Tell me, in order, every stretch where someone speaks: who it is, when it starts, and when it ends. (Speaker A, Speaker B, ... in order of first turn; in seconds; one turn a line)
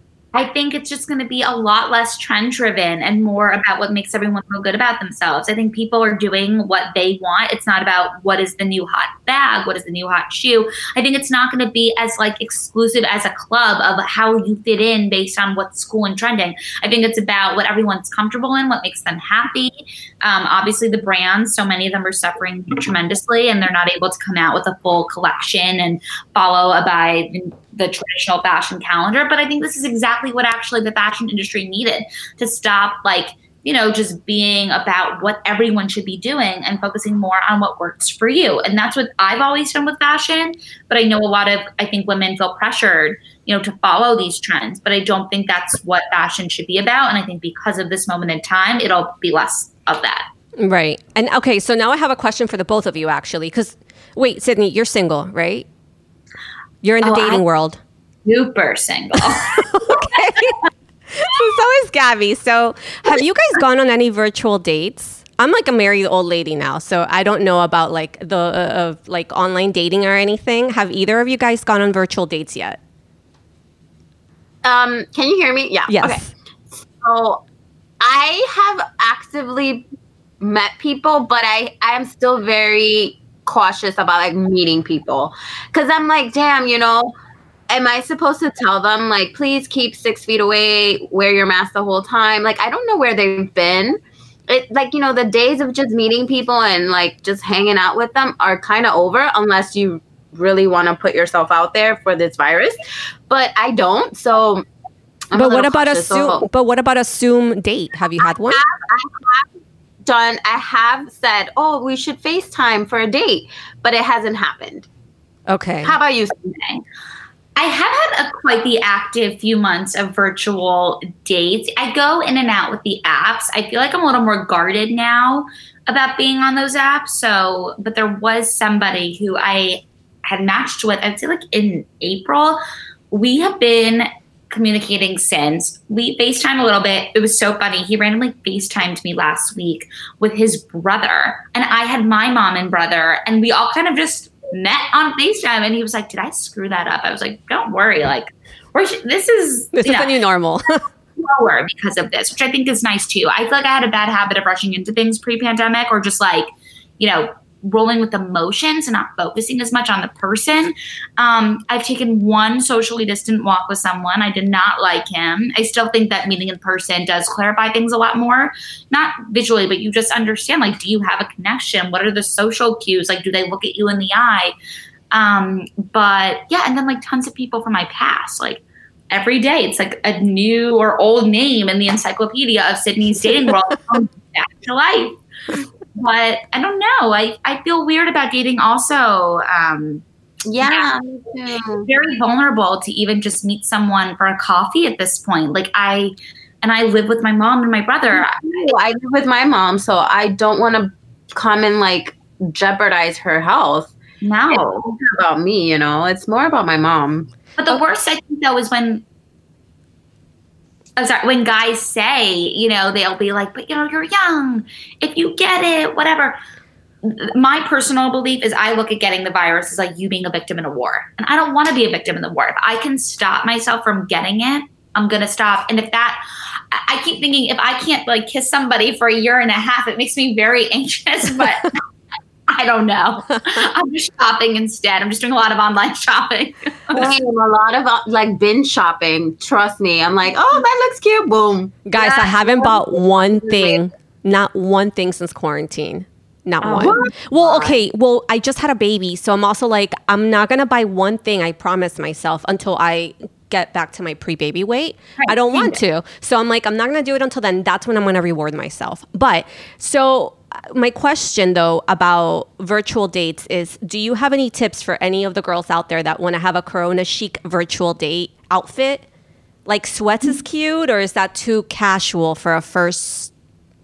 Speaker A: 0.3-50.2
Speaker B: 50.6-55.6
Speaker B: 56.8-57.8
Speaker A: 57.0-57.4
Speaker A: 58.2-60.3
Speaker B: 59.4-60.6
Speaker B: 61.1-72.8
Speaker C: 74.6-77.4
Speaker B: 75.9-76.2
Speaker C: 78.0-79.8
Speaker C: 80.4-87.1
Speaker C: 87.7-102.8
Speaker C: 103.3-104.7
Speaker C: 105.3-106.5
Speaker B: 105.3-108.6
Speaker C: 108.4-109.5
Speaker C: 110.0-114.9
Speaker B: 115.5-116.0
Speaker C: 115.8-116.5
Speaker A: 116.5-116.8
Speaker A: 117.5-132.6
Speaker A: 133.1-150.1
Speaker B: 149.7-150.8
Speaker A: 151.2-174.5
Speaker A: 175.1-185.2
Speaker A: 185.9-190.0
Speaker C: 190.5-191.9
Speaker A: 190.6-190.9
Speaker A: 191.8-198.7
Speaker C: 198.1-203.9
Speaker A: 204.2-205.0
Speaker C: 204.5-207.3
Speaker A: 207.6-209.0
Speaker A: 211.0-216.4
Speaker A: 217.0-226.2
Speaker A: 226.7-231.8
Speaker A: 232.5-237.1
Speaker C: 236.9-241.8
Speaker B: 241.8-269.0
Speaker A: 241.9-242.4
Speaker C: 243.4-243.8
Speaker A: 246.6-247.8
Speaker C: 246.8-247.1
Speaker A: 255.2-255.8
Speaker B: 269.6-273.3